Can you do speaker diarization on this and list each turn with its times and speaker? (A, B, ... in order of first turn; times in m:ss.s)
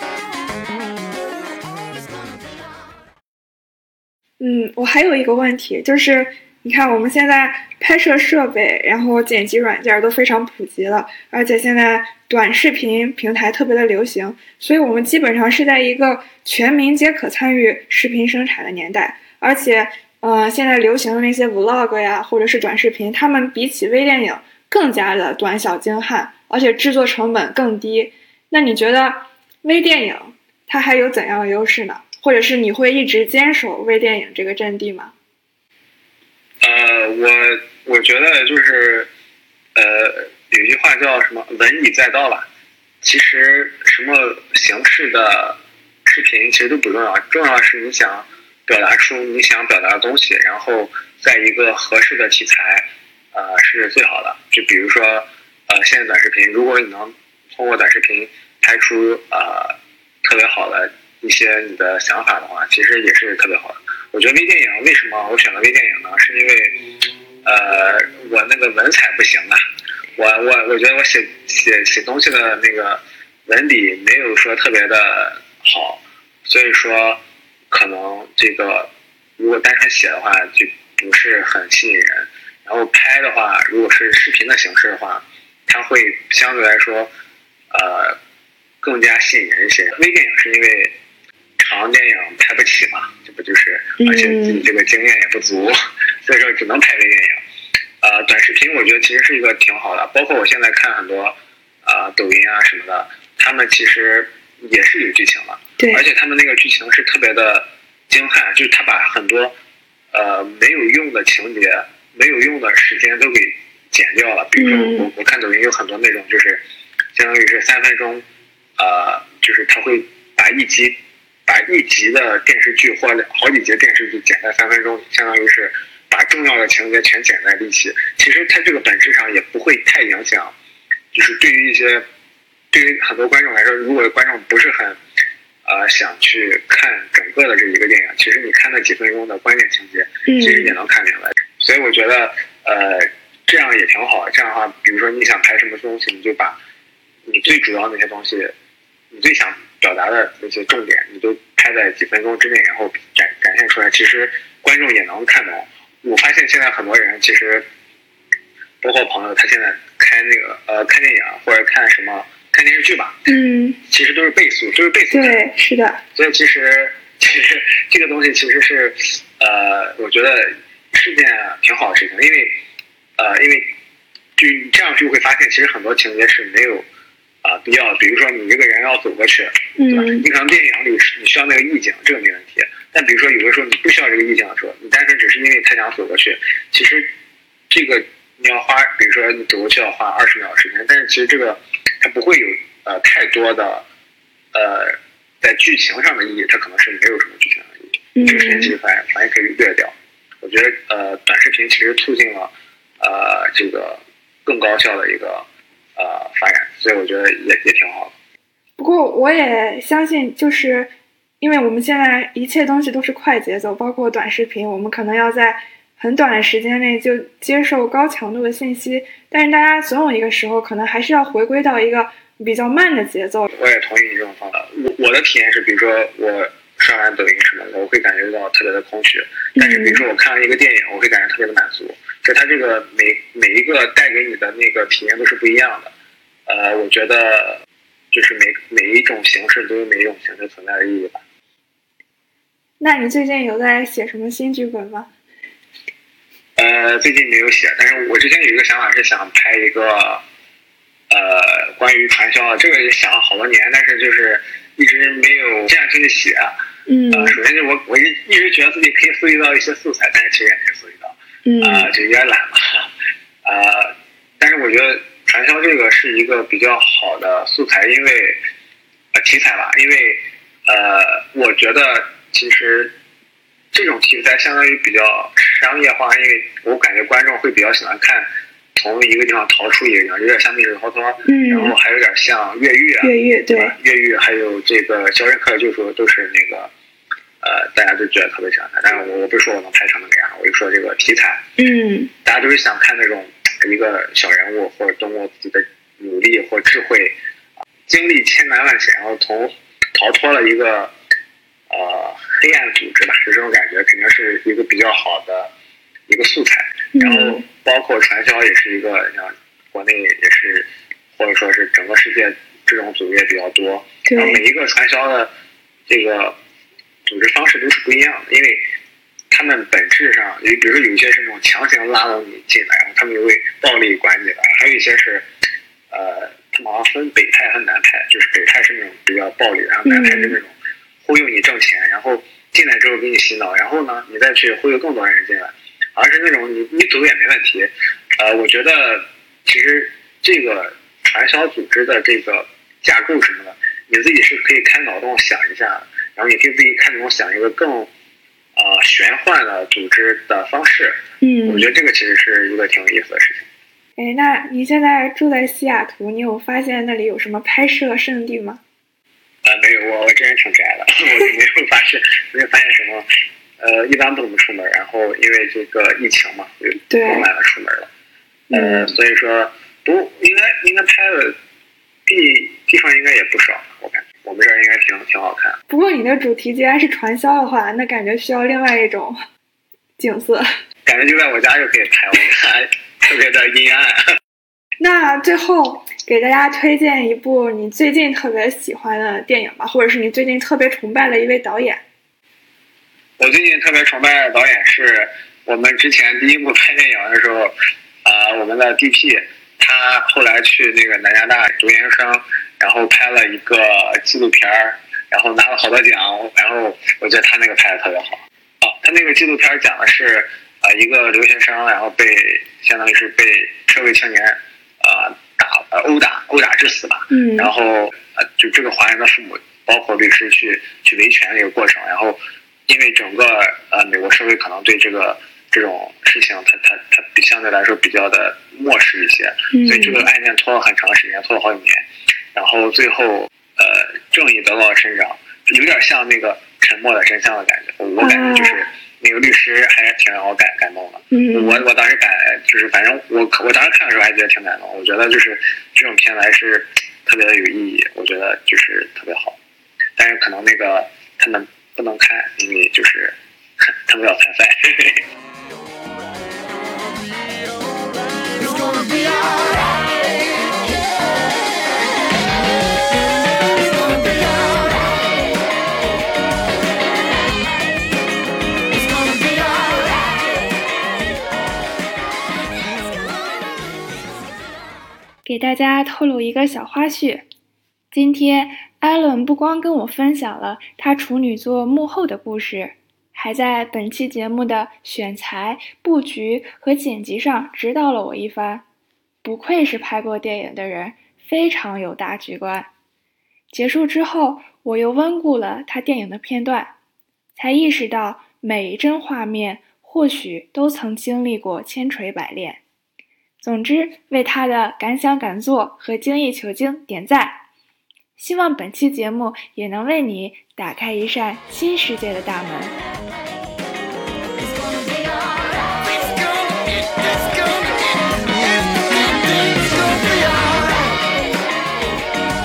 0:01.9-0:02.8 A
0:04.4-0:35.1 B
0:36.6-0:39.1 C
0:39.7-0:42.5 C
0:43.0-1:06.8 C
1:07.4-1:09.6 C
1:10.2-1:27.1 C
1:27.7-1:28.2 C
1:28.8-1:30.9 C
1:31.6-1:37.4 C
1:34.0-1:34.7 B
1:38.0-1:49.5 C
1:45.8-1:46.0 B
1:50.1-1:56.6 C
1:54.6-1:55.1 B
1:57.1-1:58.2 C
1:58.8-2:10.5 C
2:11.1-2:12.0 C
2:12.7-2:15.0 C
2:15.6-2:26.6 C
2:20.2-2:20.7 B
2:27.2-2:28.5 C
2:29.1-2:37.6 C
2:38.8-2:43.2 C
2:43.3-2:43.8 B
2:43.8-2:45.4 C
2:45.1-2:46.0 B
2:46.1-2:52.5 C
2:53.2-2:53.7 C
2:54.4-2:56.8 C
2:57.4-3:07.1 C
2:59.8-3:00.2 B
3:07.7-3:13.8 C
3:14.5-3:28.1 C
3:18.1-3:18.7 B
3:28.8-3:43.5 B
3:43.5-3:55.9 C
3:49.6-3:50.0 B
3:56.5-4:01.2 C
4:02.8-4:05.1 B
4:06.6-4:10.2 C
4:11.1-4:16.5 C
4:16.9-4:17.4 B
4:17.1-4:22.9 C
4:21.4-4:21.9 B
4:23.4-4:28.4 C
4:29.1-4:32.9 C
4:33.7-4:46.7 C
4:41.2-4:41.7 B
4:43.0-4:43.7 B
4:47.4-4:51.4 C
4:51.6-4:52.1 B
4:52.2-4:57.2 C
4:57.9-5:00.9 C
5:01.7-5:05.5 C
5:06.1-5:15.3 C
5:06.9-5:07.4 B
5:14.0-5:14.4 B
5:15.9-5:16.4 C
5:17.0-5:18.6 C
5:19.3-5:25.2 C
5:25.9-5:47.9 C
5:29.8-5:30.3 B
5:48.6-5:53.5 C
5:51.2-5:51.7 B
5:54.0-5:58.6 B
5:59.4-6:03.0 C
6:03.6-6:07.9 C
6:06.9-6:07.3 B
6:08.5-6:08.9 B
6:08.5-6:11.4 C
6:12.1-6:15.6 C
6:15.7-6:19.2 B
6:20.0-6:20.4 B
6:20.8-6:24.0 C
6:24.8-6:31.8 B
6:33.2-7:29.4 C
6:57.1-6:57.5 B
7:09.5-7:10.0 B
7:18.0-7:18.6 B
7:21.1-7:21.6 B
7:30.0-7:35.0 C
7:37.1-7:37.5 A
7:38.2-7:41.3 A
7:43.0-7:45.3 A
7:48.7-7:50.4 A
7:52.6-7:54.1 A
7:55.2-7:57.2 B
7:57.9-8:08.6 B
8:09.2-8:12.7 B
8:13.5-8:16.7 B
8:17.4-8:22.6 B
8:23.4-8:27.4 B
8:28.2-8:32.7 B
8:34.3-8:41.0 A